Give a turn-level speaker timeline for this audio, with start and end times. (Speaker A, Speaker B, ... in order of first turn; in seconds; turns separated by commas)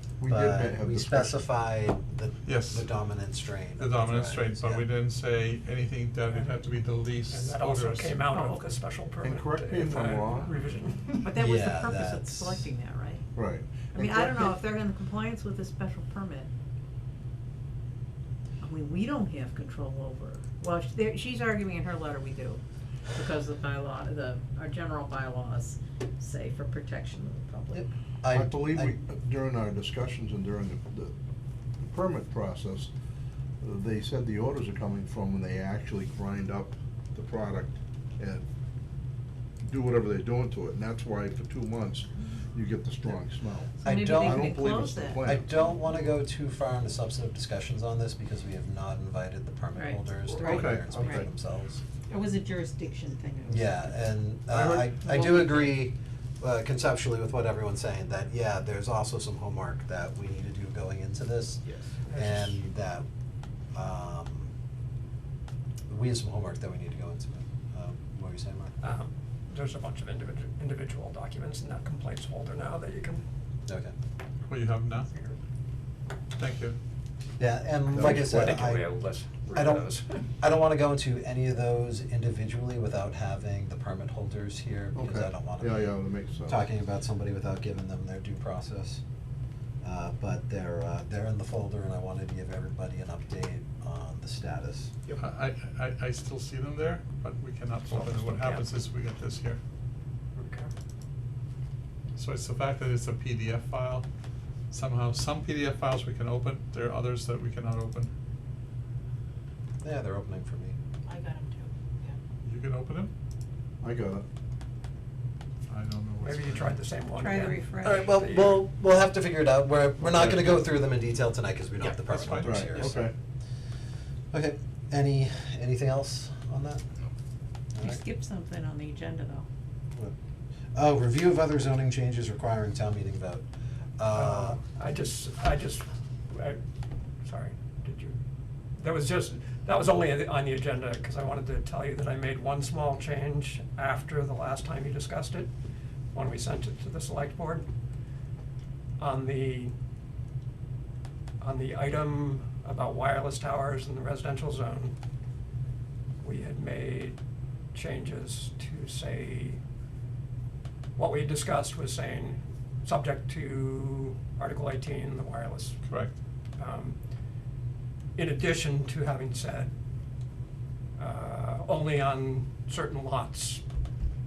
Speaker A: 0.2-1.4, Speaker B: 0.3-4.9, Speaker C: 2.5-3.0, Speaker C: 3.8-8.2, Speaker D: 7.3-11.3, Speaker E: 8.3-8.8, Speaker A: 9.2-10.5, Speaker E: 11.2-13.2, Speaker B: 11.3-12.6, Speaker A: 13.3-14.3, Speaker E: 13.9-16.5, Speaker E: 18.6-22.6, Speaker E: 23.1-27.9, Speaker B: 27.7-29.0, Speaker A: 28.3-31.1, Speaker A: 31.8-32.9, Speaker A: 33.6-38.5, Speaker A: 39.6-45.5, Speaker E: 43.8-45.3, Speaker B: 43.8-44.6, Speaker B: 45.2-51.8, Speaker E: 49.7-51.3, Speaker A: 50.3-51.3, Speaker E: 52.1-55.8, Speaker B: 53.5-63.1, Speaker A: 54.5-54.9, Speaker D: 62.0-62.6, Speaker B: 63.7-64.5, Speaker B: 65.9-68.7, Speaker D: 68.8-73.2, Speaker B: 73.7-73.9, Speaker C: 74.5-75.1, Speaker D: 75.1-75.4, Speaker C: 76.4-76.8, Speaker B: 77.4-78.9, Speaker A: 77.9-78.6, Speaker D: 77.9-80.3, Speaker B: 79.5-79.9, Speaker B: 80.4-89.0, Speaker A: 85.0-86.7, Speaker B: 89.8-95.0, Speaker C: 95.1-99.6, Speaker D: 97.9-98.7, Speaker D: 100.3-100.7, Speaker C: 102.2-104.1, Speaker C: 104.7-108.1, Speaker B: 109.8-110.8, Speaker E: 111.1-112.2, Speaker C: 112.4-113.1, Speaker A: 113.8-114.2, Speaker C: 115.7-116.8, Speaker D: 116.2-118.6, Speaker E: 117.2-118.0, Speaker B: 117.8-123.1, Speaker C: 122.0-122.7, Speaker A: 122.4-123.1, Speaker B: 124.3-126.8, Speaker B: 127.7-128.0, Speaker E: 127.8-129.5, Speaker B: 130.7-133.4, Speaker B: 134.0-134.6, Speaker D: 134.1-136.6, Speaker D: 137.2-138.2, Speaker D: 138.8-145.5, Speaker D: 146.1-147.7, Speaker D: 149.0-149.7, Speaker D: 151.4-154.9, Speaker D: 156.2-157.2, Speaker D: 157.7-159.6, Speaker D: 161.0-165.9, Speaker C: 165.9-166.2, Speaker D: 166.6-167.0, Speaker D: 168.2-169.7, Speaker D: 171.0-173.6